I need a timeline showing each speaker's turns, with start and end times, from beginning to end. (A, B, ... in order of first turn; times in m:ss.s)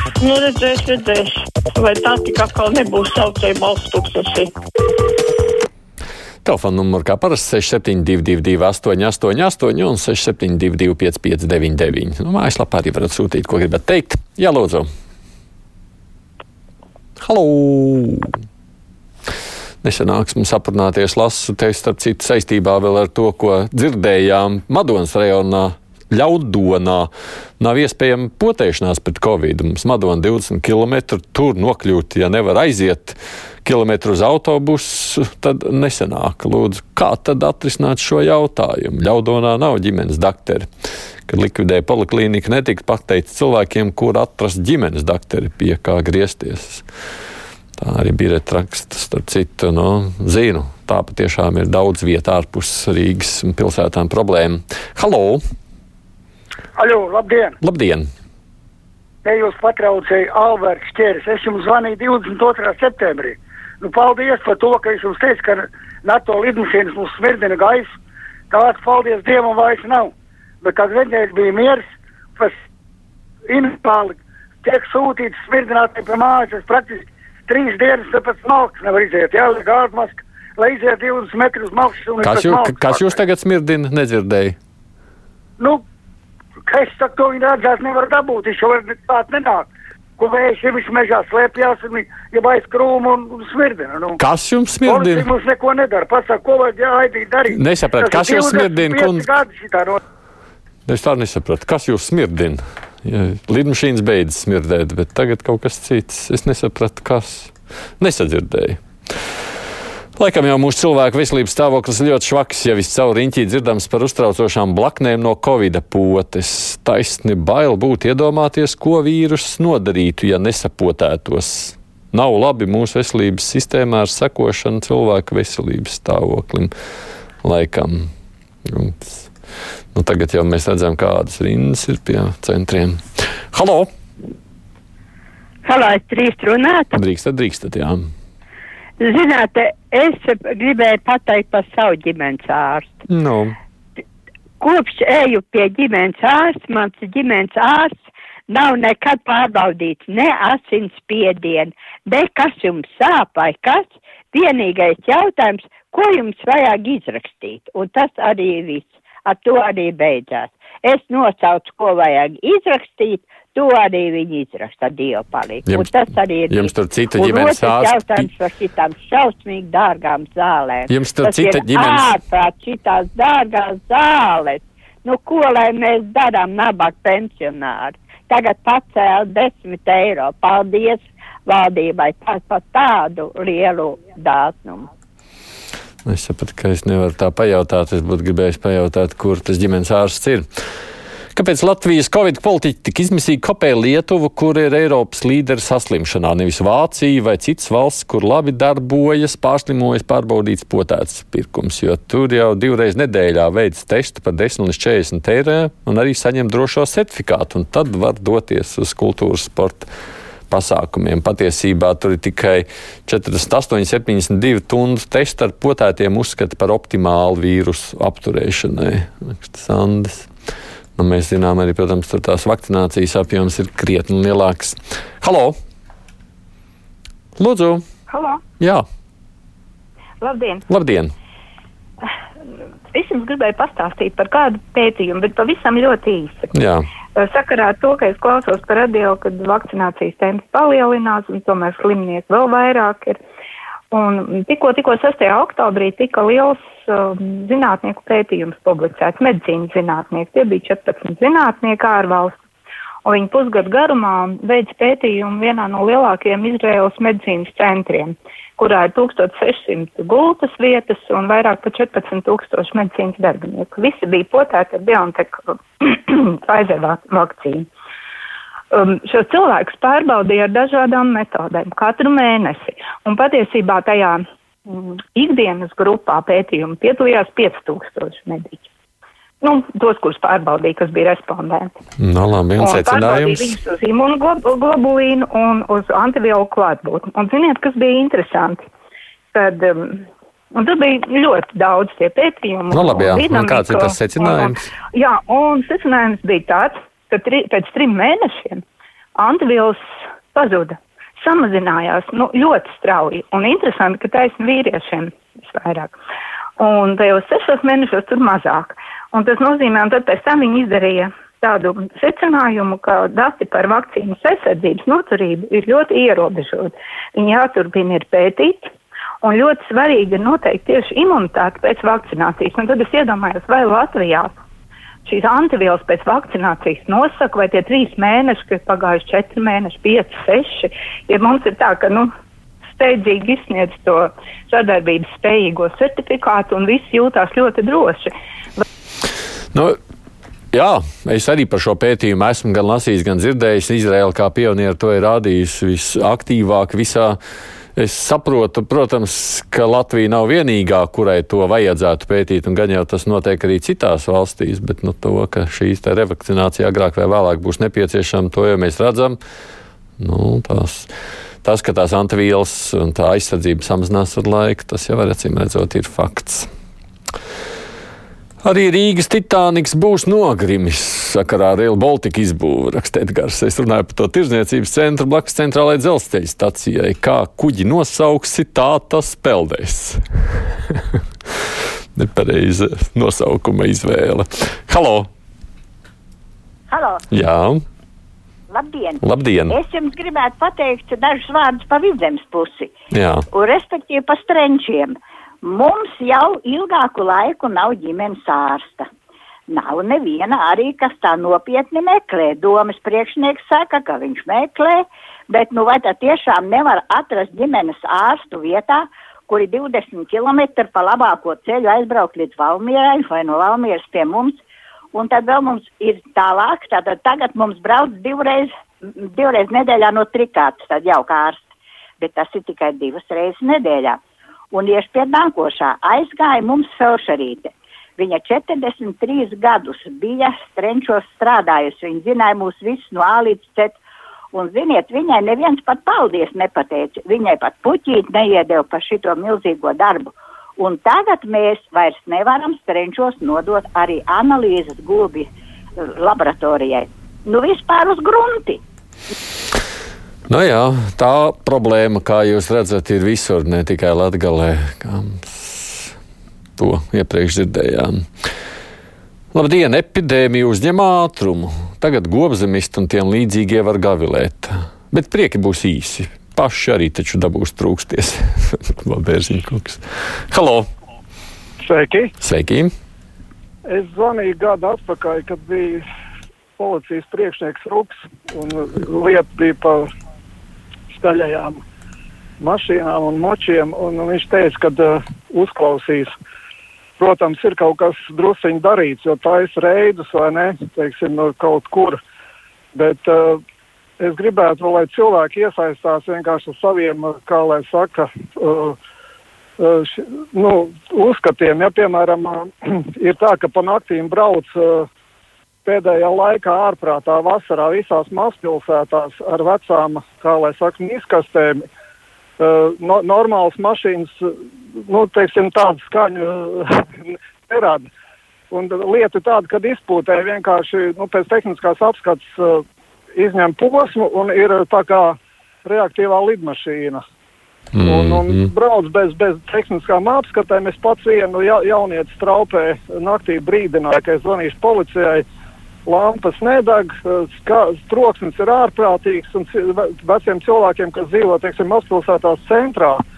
0:00.2-0:04.5 A
0:06.4-0:14.9 B
0:17.2-0:18.3 B
0:19.8-0:40.7 B
0:41.3-0:46.8 B
0:47.8-0:55.4 B
0:56.8-0:57.5 C
0:57.6-0:58.1 B
0:59.2-1:07.9 C
1:08.5-1:11.8 C
1:13.5-1:22.9 C
1:22.2-1:24.6 B
1:26.7-1:29.6 C
1:30.2-1:34.2 C
1:34.2-1:35.3 B
1:34.9-1:37.5 C
1:37.5-1:39.3 B
1:38.0-1:40.0 C
1:40.8-1:48.8 B
1:50.2-2:06.7 B
2:07.4-2:08.1 B
2:08.7-2:09.3 B
2:09.9-2:13.9 B
2:15.6-2:17.0 D
2:16.9-2:18.0 B
2:19.0-2:23.0 D
2:23.1-2:23.5 B
2:24.6-2:28.0 D
2:28.5-3:04.9 D
2:46.5-2:48.3 B
2:50.9-2:52.1 B
3:06.0-3:10.4 B
3:11.3-3:29.9 B
3:30.5-3:40.3 B
3:41.0-3:45.5 B
3:47.4-3:47.8 B
3:48.1-3:48.4 E
3:50.2-3:50.6 E
3:50.7-3:51.1 B
3:52.9-3:56.5 E
3:56.5-3:56.8 B
3:57.1-4:03.2 E
4:03.9-4:12.4 E
4:13.0-4:27.7 E
4:28.7-4:38.7 E
4:39.4-4:41.7 E
4:42.0-4:43.6 B
4:42.6-4:48.6 E
4:49.3-4:58.6 E
4:52.7-4:54.7 B
4:59.2-4:59.8 E
5:00.3-5:05.9 E
5:06.6-5:18.7 E
5:19.2-5:24.3 E
5:25.0-5:32.1 E
5:32.7-5:38.6 E
5:40.5-5:47.2 B
5:47.8-5:59.2 B
6:00.0-6:00.9 B
6:01.4-6:06.5 B
6:08.4-6:20.0 B
6:22.0-6:25.1 B
6:26.7-6:27.0 F
6:27.1-6:27.6 B
6:28.5-6:32.7 F
6:29.0-6:29.6 B
6:32.9-6:33.2 B
6:33.3-6:38.9 F
6:39.5-6:54.4 F
6:54.9-6:58.5 F
6:59.0-7:04.0 F
7:04.5-7:13.7 F
7:14.3-7:25.3 F
7:26.0-7:28.6 F
7:30.3-7:35.9 B
7:36.6-7:38.0 B
7:39.3-7:50.6 B
7:51.6-7:52.1 G
7:52.2-7:52.7 B
7:53.7-7:55.8 G
7:56.6-7:59.9 G
8:00.9-8:01.6 G
8:02.4-8:06.1 G
8:07.0-8:12.0 G
8:12.7-8:13.4 G
8:14.0-8:18.8 G
8:19.6-8:24.9 G
8:25.6-8:31.6 G
8:32.4-8:34.3 G
8:34.9-8:37.9 G
8:38.5-8:42.6 G
8:43.2-8:47.0 G
8:47.7-8:48.4 B
8:47.8-8:55.2 G
8:55.9-9:03.0 G